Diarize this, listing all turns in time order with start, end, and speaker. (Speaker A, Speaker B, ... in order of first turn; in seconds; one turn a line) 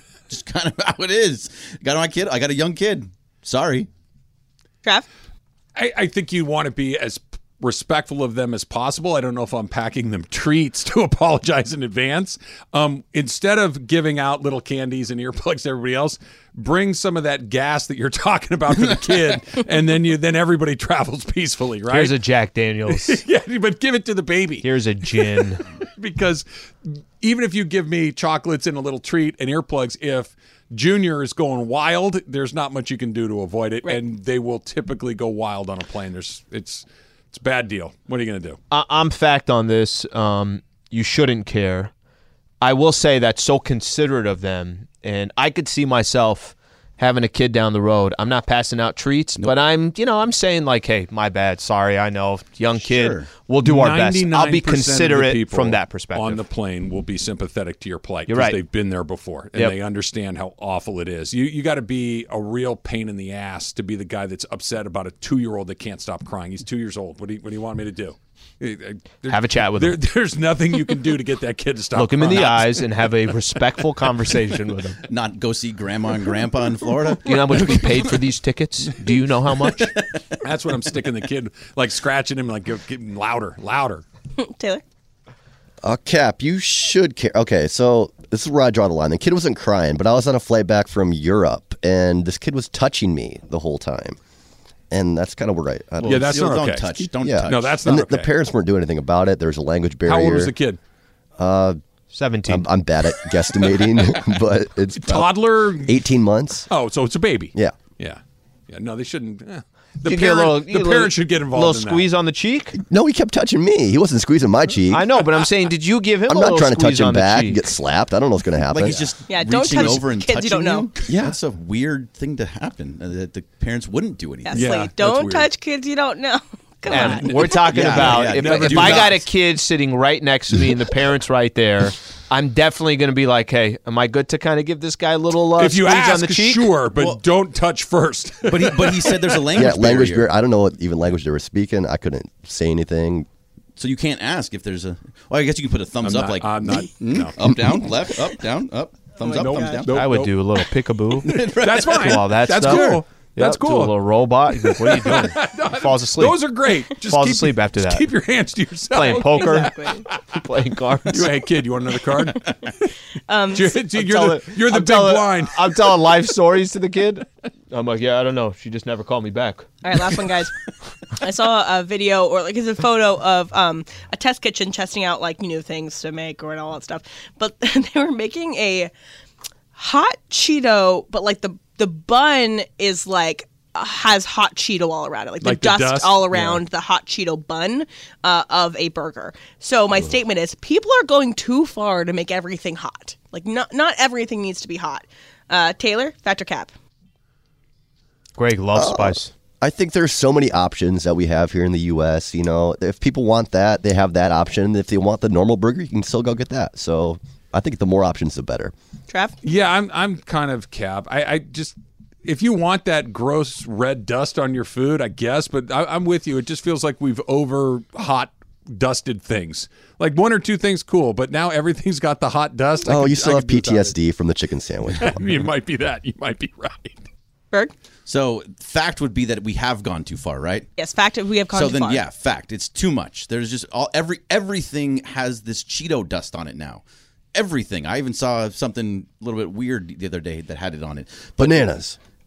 Speaker A: 0.3-3.9
Speaker B: 5.8-22.1
Speaker C: 21.9-23.2
Speaker B: 22.9-38.6
Speaker C: 24.6-25.6
Speaker C: 38.7-41.9
Speaker C: 42.6-56.4
Speaker A: 52.8-53.3
Speaker B: 53.6-72.8
Speaker C: 58.3-58.6
Speaker C: 69.3-70.0
Speaker C: 71.9-75.0
Speaker A: 75.1-78.2
Speaker C: 77.2-79.9
Speaker A: 79.7-80.3
Speaker B: 80.4-84.0
Speaker D: 84.4-84.8
Speaker E: 85.8-94.2
Speaker E: 94.9-96.3
Speaker A: 96.0-97.8
Speaker B: 96.0-98.3
Speaker E: 97.2-100.5
Speaker B: 100.0-100.8
Speaker E: 101.4-101.8
Speaker C: 102.1-102.7
Speaker E: 102.5-106.7
Speaker B: 104.0-104.2
Speaker B: 104.9-106.0
Speaker B: 106.7-112.0
Speaker C: 110.0-112.8
Speaker E: 112.9-115.1
Speaker C: 114.9-117.7
Speaker E: 116.3-119.1
Speaker A: 118.7-124.8
Speaker D: 119.3-120.9
Speaker E: 121.1-121.3
Speaker D: 124.4-127.4
Speaker B: 124.5-125.5
Speaker B: 126.9-129.1
Speaker C: 126.9-136.7
Speaker A: 127.4-129.3
Speaker B: 135.6-139.4
Speaker A: 138.4-140.3
Speaker E: 139.5-143.3
Speaker A: 143.8-149.9
Speaker B: 146.0-147.4
Speaker D: 149.2-149.8
Speaker B: 149.3-150.4
Speaker C: 149.9-156.4
Speaker A: 151.2-153.0
Speaker B: 151.6-154.0
Speaker B: 154.5-160.4
Speaker C: 157.0-158.1
Speaker C: 158.9-161.4
Speaker D: 159.0-160.0
Speaker B: 161.1-162.9
Speaker D: 163.3-163.8
Speaker B: 163.5-165.9
Speaker C: 163.9-169.7
Speaker D: 169.8-170.6
Speaker D: 171.2-178.9
Speaker D: 179.7-196.7
Speaker B: 185.4-186.6
Speaker C: 198.4-199.3
Speaker E: 198.7-208.7
Speaker D: 209.1-209.3
Speaker B: 209.4-223.9
Speaker E: 222.8-225.2
Speaker B: 225.0-227.0
Speaker A: 228.1-230.7
Speaker D: 230.8-232.0
Speaker A: 231.5-236.8
Speaker A: 237.3-241.7
Speaker E: 241.4-242.0